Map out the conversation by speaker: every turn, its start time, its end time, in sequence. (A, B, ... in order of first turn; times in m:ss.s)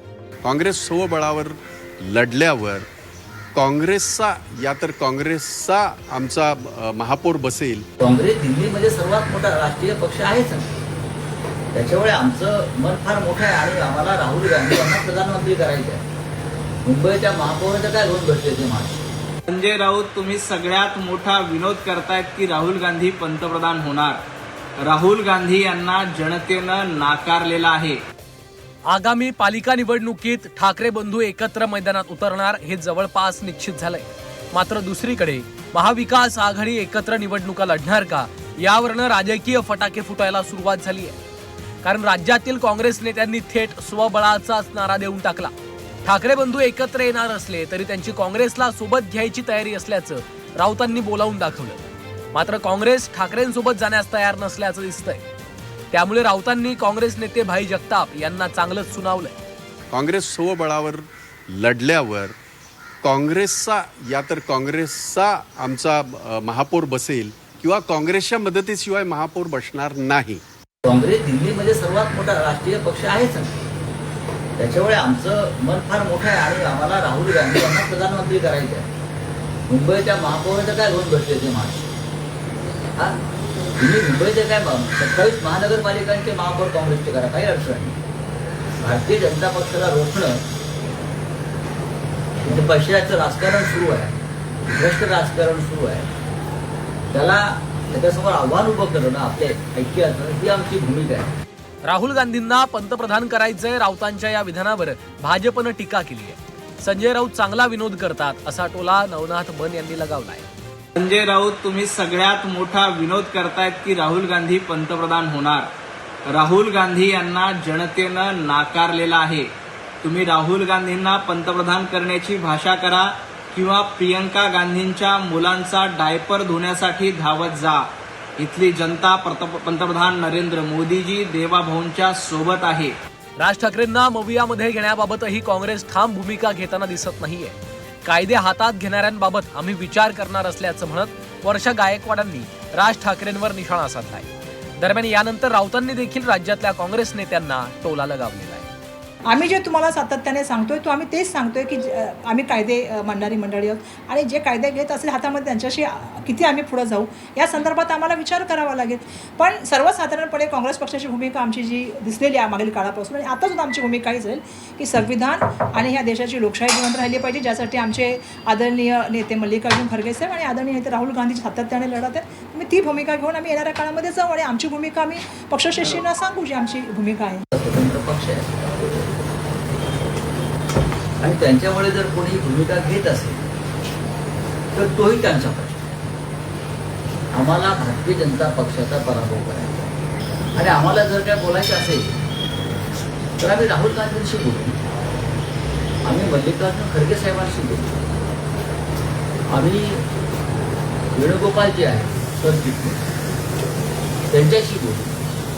0:00.4-0:02.9 A
0:03.5-0:07.8 A
0:08.0-0:10.7 B
0:11.7-0:16.1 B
0:16.8-0:19.0 B
0:19.5-0:24.2 C
0:24.8-0:28.0 C
0:28.9-0:41.2 D
0:41.8-0:45.5 D
0:46.0-0:51.8 D
0:52.3-0:55.2 D
0:55.9-0:59.4 D
0:59.9-1:02.4 A
1:03.0-1:10.4 A
1:10.8-1:13.6 B
1:14.6-1:18.9 B
1:19.7-1:21.9 B
1:23.8-1:28.0 B
1:28.8-1:30.4 B
1:32.4-1:34.2 B
1:34.7-1:36.1 B
1:37.1-1:41.3 B
1:41.8-1:50.5 D
1:51.0-1:55.7 C
1:56.3-1:59.5 C
2:00.0-2:12.9 C
2:13.4-2:28.7 D
2:29.3-2:57.4 E
2:57.5-2:59.1 B
3:01.2-3:03.4 B
3:04.8-3:05.9 B
3:07.3-3:09.8 B
3:10.6-3:12.2 B
3:13.4-3:14.8 B
3:16.0-3:18.0 B
3:19.5-3:20.0 B
3:21.2-3:23.0 B
3:24.3-3:25.2 B